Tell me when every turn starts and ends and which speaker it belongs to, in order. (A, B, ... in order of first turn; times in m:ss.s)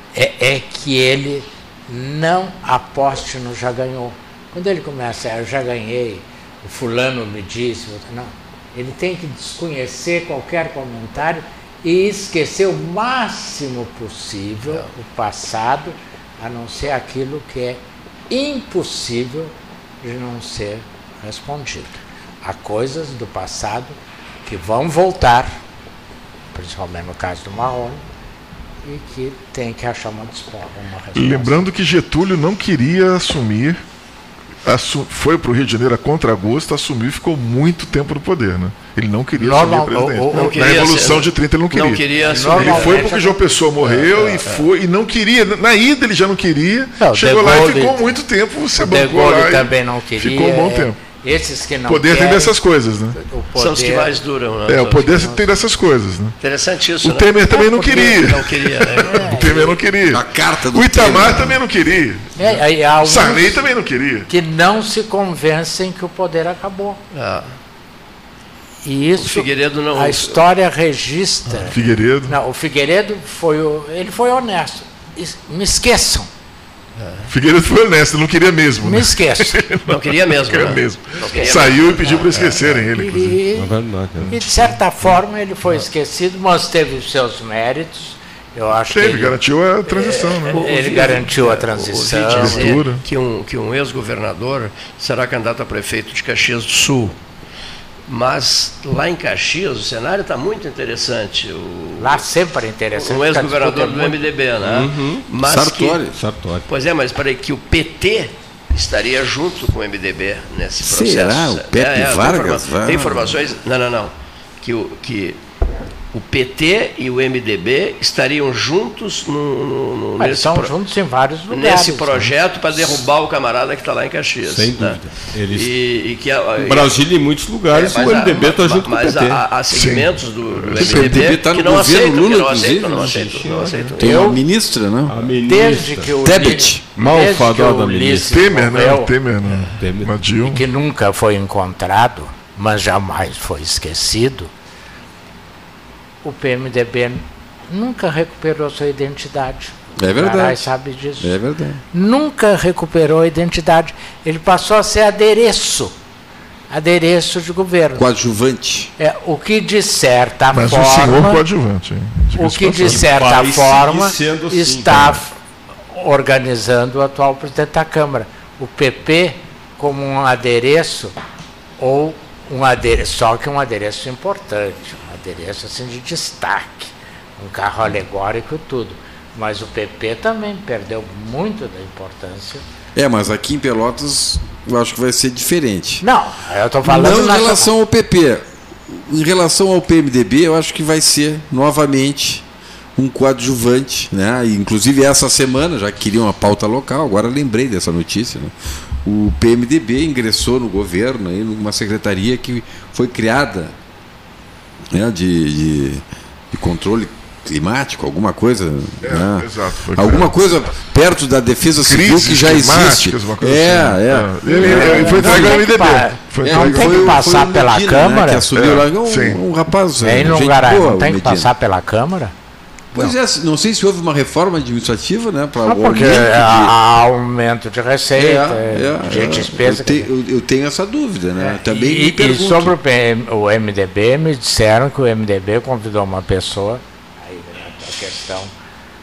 0:00.2-0:25.6 A
0:26.5-0:28.0 A
0:28.8-0:31.7 A
0:31.2-0:33.8 B
0:34.6-0:51.0 B
0:39.4-0:40.7 A
0:40.3-0:43.1 C
0:42.3-0:43.4 A
0:43.8-0:44.7 C
0:47.0-0:48.0 A
0:48.8-0:52.6 A
0:51.9-0:53.2 B
0:53.2-0:54.2 A
0:53.6-0:55.3 C
0:54.7-0:56.4 B
0:55.1-0:55.4 A
0:56.4-0:59.2 C
0:57.0-1:04.3 B
0:57.5-0:58.2 A
0:59.0-0:59.8 A
1:00.1-1:01.6 D
1:02.4-1:03.6 A
1:04.3-1:07.0 A
1:07.1-1:07.5 C
1:08.8-1:16.3 A
1:09.2-1:10.4 C
1:11.7-1:12.3 B
1:17.0-1:17.3 C
1:17.3-1:23.4 B
1:18.8-1:19.6 A
1:19.9-1:22.7 C
1:21.2-1:23.7 A
1:23.5-1:24.7 E
1:24.3-1:32.8 A
1:28.9-1:30.7 B
1:30.5-1:37.2 C
1:32.3-1:33.0 B
1:38.1-1:42.2 C
1:42.0-1:44.2 A
1:43.0-1:46.0 C
1:44.6-1:45.3 E
1:45.4-1:46.2 D
1:46.1-1:46.7 E
1:46.7-1:55.4 C
1:50.8-1:53.4 D
1:56.1-2:00.7 C
2:00.2-2:02.3 A
2:01.5-2:05.0 C
2:04.4-2:05.7 E
2:05.5-2:06.9 C
2:06.6-2:09.4 E
2:07.7-2:14.0 C
2:09.7-2:11.3 B
2:10.7-2:13.3 D
2:12.9-2:14.0 E
2:14.0-2:14.4 A
2:14.0-2:15.3 D
2:15.1-2:16.2 E
2:15.5-2:19.1 A
2:16.2-2:16.8 D
2:16.9-2:18.3 E
2:18.3-2:20.6 B
2:19.4-2:20.2 E
2:20.4-2:24.5 A
2:26.2-2:31.4 A
2:30.0-2:30.6 D
2:31.2-2:31.8 D
2:31.9-2:36.0 A
2:36.7-2:38.1 A
2:38.0-2:38.9 D
2:39.0-2:41.4 A
2:40.5-2:43.0 B
2:42.4-2:45.3 A
2:42.8-2:45.2 E
2:45.9-2:51.2 A
2:51.8-3:02.6 A
3:03.0-3:06.0 D
3:06.0-3:07.7 A
3:06.8-3:12.4 D
3:13.0-3:23.8 D
3:24.9-3:41.5 D
3:29.0-3:30.3 B
3:31.9-3:37.2 B
3:34.4-3:38.5 A
3:38.5-3:39.4 B
3:40.0-3:42.3 A
3:42.9-3:46.8 D
3:45.6-3:50.1 A
3:48.2-3:52.8 D
3:51.4-3:58.5 A